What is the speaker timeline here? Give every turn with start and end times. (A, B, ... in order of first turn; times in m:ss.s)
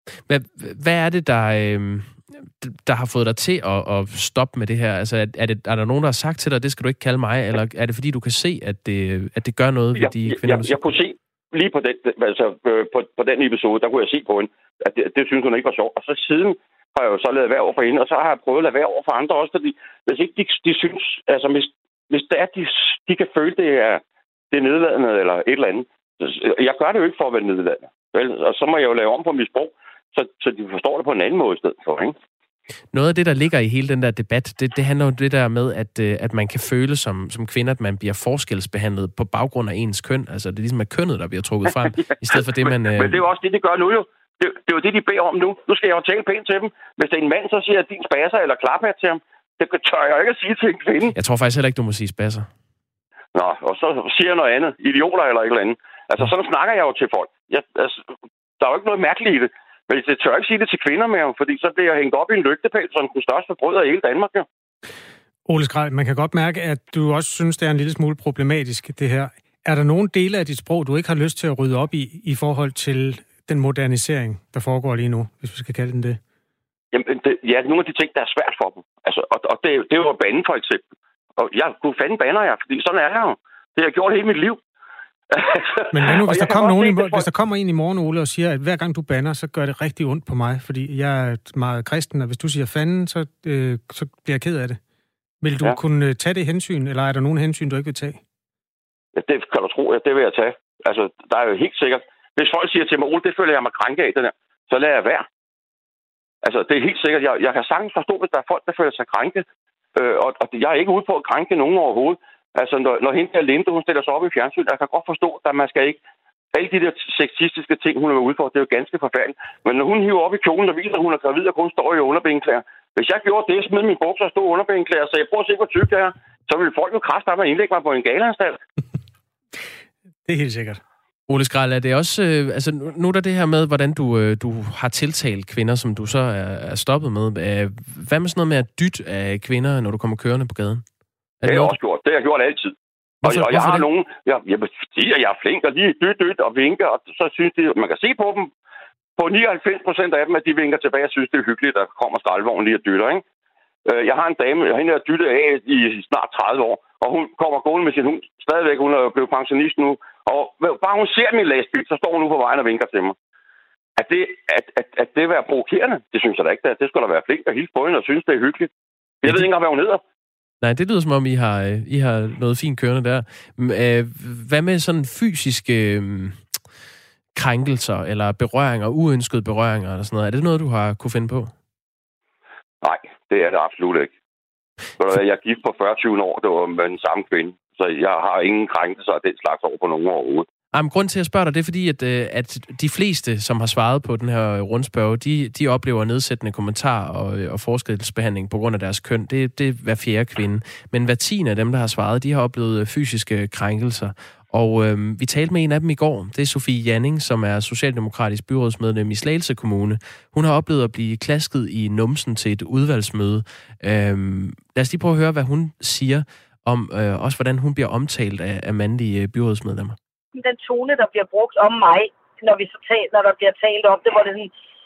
0:00.3-0:10.9 A
0:10.0-0:32.2 B
0:32.9-0:43.2 A
0:41.7-0:51.1 B
0:51.2-0:52.5 A
0:53.4-0:58.0 B
0:58.6-1:04.5 B
1:05.5-1:16.2 C
1:16.9-1:20.8 B
1:21.4-1:24.6 B
1:25.3-1:27.2 B
1:25.9-1:34.8 C
1:35.4-1:38.2 C
1:39.2-1:45.2 B
1:46.4-1:49.4 B
1:50.0-1:56.0 B
1:56.5-2:08.6 B
2:10.3-2:10.8 C
2:11.3-2:20.8 A
2:21.4-2:21.7 A
2:21.5-2:28.5 B
2:23.2-2:23.9 A
2:29.2-2:33.2 B
2:33.9-2:43.2 B
2:44.0-2:48.7 B
2:49.2-2:50.0 B
2:50.6-2:56.4 A
2:57.4-3:01.5 A
3:02.8-3:04.1 B
3:05.0-3:10.5 B
3:10.7-3:40.0 A
3:40.3-3:44.5 D